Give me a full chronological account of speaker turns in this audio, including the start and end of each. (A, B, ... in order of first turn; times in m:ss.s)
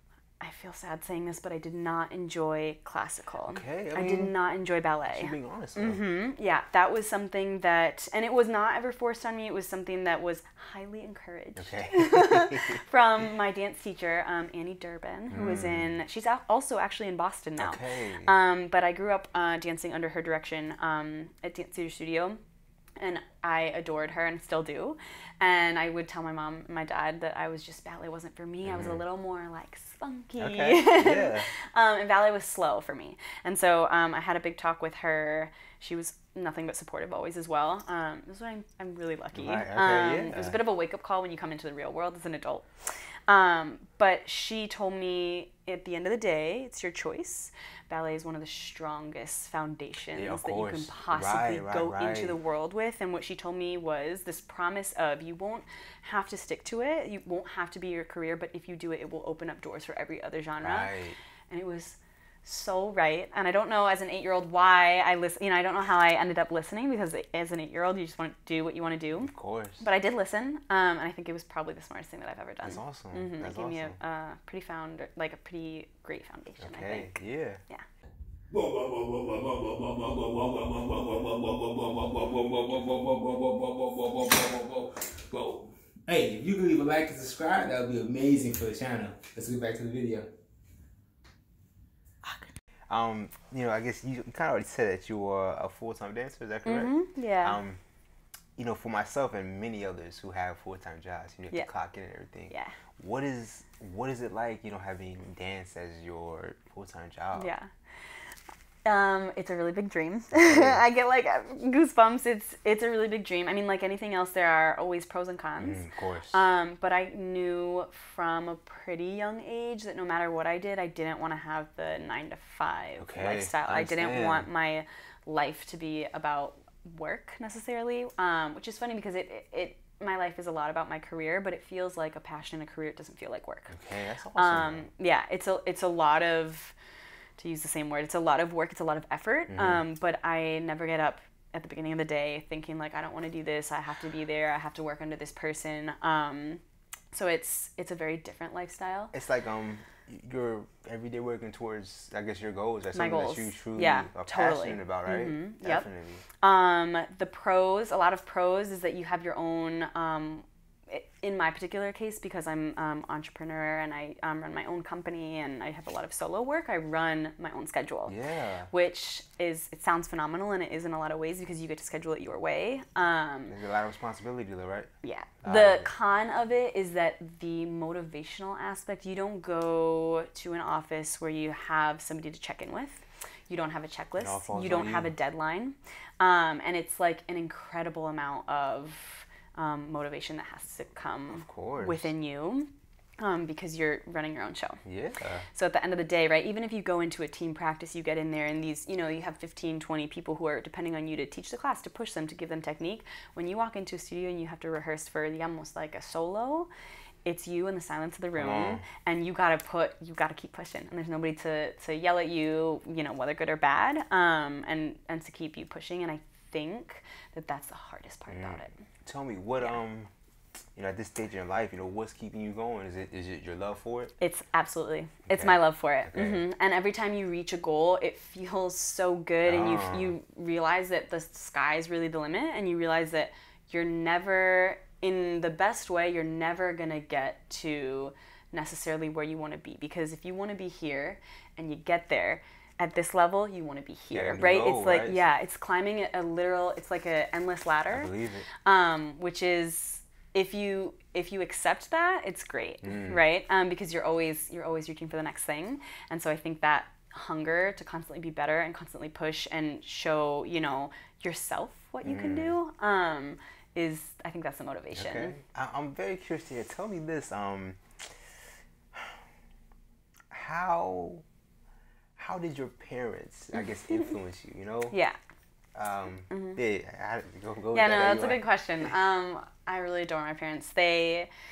0:00.4-0:22.4 A
0:03.5-0:04.4 B
0:05.1-0:06.0 B
0:11.6-0:12.8 B
0:15.3-0:15.9 B
0:17.6-0:18.3 B
0:23.0-0:42.7 A
0:28.6-0:29.0 B
0:30.4-0:31.5 B
0:39.3-0:40.6 B
0:43.3-1:00.9 A
0:50.1-0:52.4 B
1:00.6-1:01.2 B
1:01.5-1:17.2 A
1:09.2-1:09.8 B
1:12.6-1:14.0 B
1:16.6-1:17.6 B
1:18.5-1:30.3 C
1:32.9-1:37.8 B
1:36.7-1:37.6 A
1:38.6-1:47.5 B
1:42.5-1:42.8 A
1:47.4-1:47.7 A
1:48.8-1:55.8 A
1:50.4-1:50.8 B
1:55.6-1:56.4 B
1:56.3-2:13.8 A
2:03.0-2:04.5 B
2:13.7-2:14.9 B
2:14.4-2:16.8 A
2:17.4-2:29.1 A
2:19.5-2:19.8 B
2:29.1-2:36.2 B
2:32.9-2:35.9 A
2:36.4-2:48.2 A
2:48.1-2:48.7 B
2:48.7-2:53.6 A
2:53.5-2:54.9 B
2:55.0-3:14.8 A
2:55.4-2:55.9 B
3:04.2-3:05.1 B
3:11.3-3:12.1 B
3:14.8-3:15.4 B
3:15.6-3:26.7 A
3:27.2-3:38.7 A
3:28.4-3:28.8 B
3:38.3-3:40.1 B
3:40.8-3:44.1 B
3:44.2-4:08.1 A
3:45.3-3:46.5 B
3:49.4-3:50.1 B
4:04.1-4:05.2 B
4:07.9-4:08.5 B
4:08.6-4:25.4 A
4:12.8-4:13.2 B
4:22.0-4:22.5 B
4:25.0-4:28.1 B
4:28.9-4:29.2 B
4:30.3-4:31.2 B
4:32.2-4:35.0 B
4:34.9-4:35.2 A
4:35.8-4:38.4 B
4:36.3-4:36.6 A
4:37.7-4:41.3 A